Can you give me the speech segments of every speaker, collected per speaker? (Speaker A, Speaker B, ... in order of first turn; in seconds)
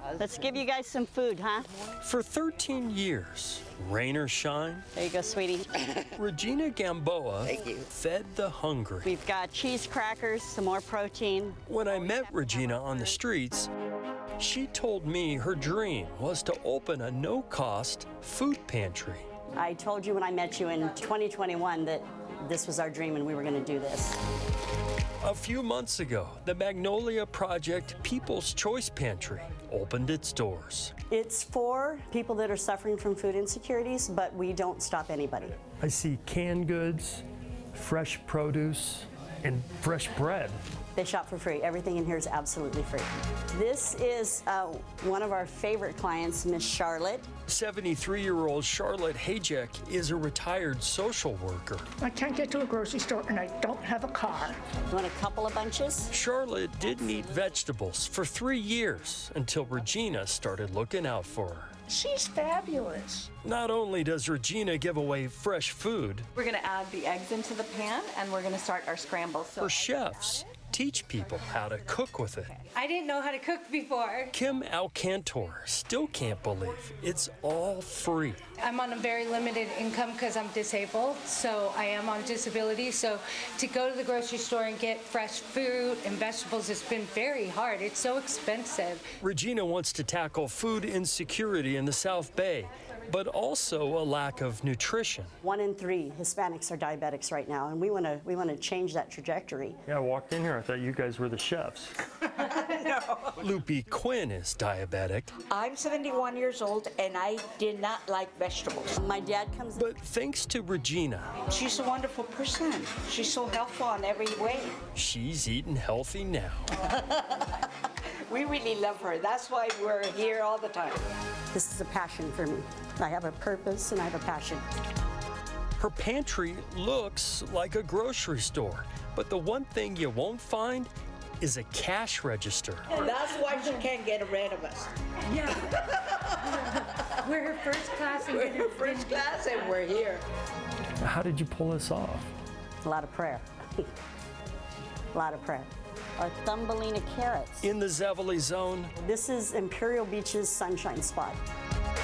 Speaker A: 0.2-1.7, 5.0-5.9, 7.5-7.8, 9.0-11.6, 19.6-24.2, 31.1-35.6, 41.0-47.3, 54.9-56.1, 95.4-99.8, 109.0-109.9, 121.5-124.6, 142.8-143.9, 145.1-147.7, 149.0-151.4
Speaker B: 2.0-4.9, 6.1-9.1, 11.7-13.7, 14.4-19.3, 25.2-30.9, 35.8-40.6, 47.5-51.9, 56.1-61.7, 63.4-66.3, 69.6-72.6, 74.3-78.4, 89.2-95.3, 99.9-101.9, 103.4-105.3, 109.8-111.3, 115.0-116.7, 125.8-133.0, 141.0-142.3, 147.6-148.9
Speaker C: 52.0-54.6, 61.9-63.3
Speaker D: 66.4-69.7
Speaker E: 72.8-74.3, 78.6-89.0, 135.3-139.8
Speaker F: 102.2-103.3, 105.5-109.0, 111.5-114.8, 116.8-117.7, 118.3-121.0, 132.9-134.9, 135.6-137.1, 138.2-140.2